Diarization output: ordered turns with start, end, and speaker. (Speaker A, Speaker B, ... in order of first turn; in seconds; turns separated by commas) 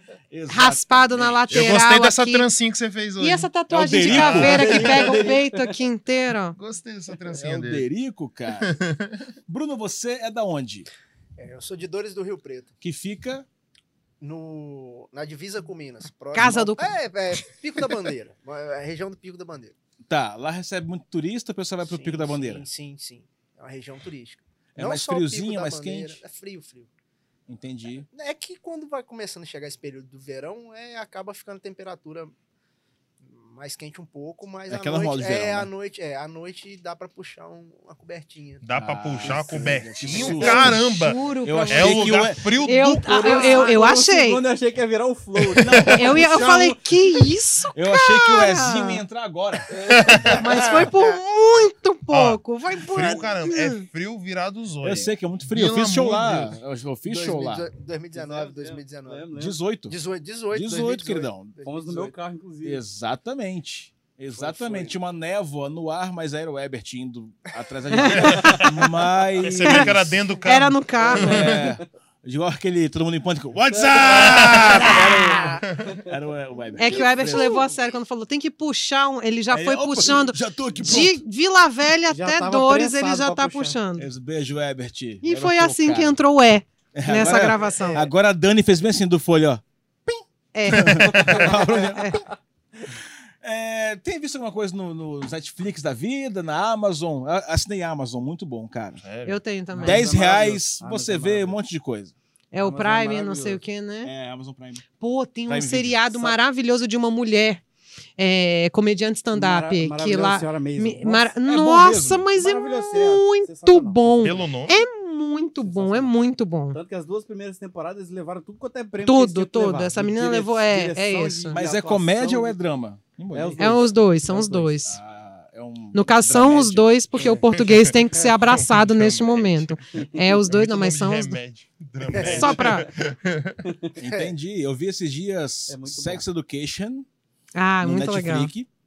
Speaker A: 0.3-1.7, Speaker B: 0.5-2.5, Speaker C: 1.5-5.2, Speaker B: 3.2-6.6, Speaker A: 3.7-5.0, Speaker D: 4.3-5.8, Speaker C: 6.5-7.8, Speaker A: 7.3-8.8, Speaker C: 8.6-9.1, Speaker A: 9.5-10.9, Speaker E: 11.4-12.7, Speaker A: 12.8-13.4, Speaker E: 14.2-19.7, Speaker B: 16.3-16.9, Speaker A: 20.1-22.6, Speaker E: 21.8-26.9, Speaker A: 24.8-26.2, Speaker A: 27.5-28.1, Speaker E: 28.1-32.3, Speaker E: 33.2-38.6, Speaker A: 34.7-35.7, Speaker C: 38.6-43.5, Speaker A: 38.8-40.8, Speaker B: 40.3-44.4, Speaker A: 41.4-43.5, Speaker D: 43.2-46.9, Speaker C: 45.5-45.8, Speaker A: 45.6-46.2, Speaker B: 45.9-49.0, Speaker A: 47.7-49.7, Speaker D: 49.7-50.4, Speaker C: 49.9-50.4, Speaker E: 50.2-51.2, Speaker B: 50.3-53.8, Speaker C: 52.1-56.5, Speaker A: 54.8-57.7, Speaker E: 57.1-59.3, Speaker D: 58.1-59.6, Speaker A: 59.4-60.0, Speaker E: 59.9-62.1, Speaker A: 60.5-61.5, Speaker D: 61.6-62.8, Speaker A: 62.6-70.1, Speaker D: 64.3-64.9, Speaker B: 67.9-68.8, Speaker D: 68.2-68.6, Speaker C: 68.3-68.7, Speaker C: 69.4-71.6, Speaker B: 69.6-69.9, Speaker B: 70.4-71.4, Speaker D: 71.0-71.8, Speaker A: 71.1-77.6, Speaker D: 73.7-74.4, Speaker C: 74.0-75.0, Speaker B: 74.6-75.6, Speaker E: 76.8-77.9, Speaker B: 76.8-84.1, Speaker A: 79.5-81.2, Speaker D: 80.8-81.0, Speaker D: 82.1-83.8, Speaker A: 84.0-86.2, Speaker B: 85.2-88.0, Speaker A: 86.9-92.2, Speaker E: 87.3-88.1, Speaker B: 90.5-92.2, Speaker D: 91.1-92.0, Speaker A: 93.4-99.0, Speaker C: 99.0-99.4, Speaker B: 99.2-100.1, Speaker D: 99.7-101.6, Speaker A: 99.8-102.1, Speaker B: 102.5-104.1, Speaker D: 102.6-103.6, Speaker A: 104.0-104.8, Speaker B: 105.0-107.6, Speaker A: 105.5-106.3, Speaker B: 108.2-116.8, Speaker D: 109.3-111.3, Speaker A: 111.4-112.3, Speaker D: 112.3-114.4, Speaker C: 114.2-114.8, Speaker D: 115.7-116.1, Speaker D: 116.7-122.5, Speaker B: 119.0-121.6, Speaker A: 121.5-123.7, Speaker D: 123.3-124.8, Speaker B: 123.6-125.0, Speaker A: 124.8-126.9, Speaker B: 125.9-131.4, Speaker C: 127.5-129.8, Speaker C: 130.4-133.6, Speaker E: 132.1-132.6, Speaker B: 132.2-132.9, Speaker D: 132.5-132.9, Speaker D: 133.6-133.9, Speaker A: 133.9-137.1, Speaker E: 134.0-134.3, Speaker D: 135.7-136.2, Speaker B: 137.5-138.5, Speaker A: 137.8-138.7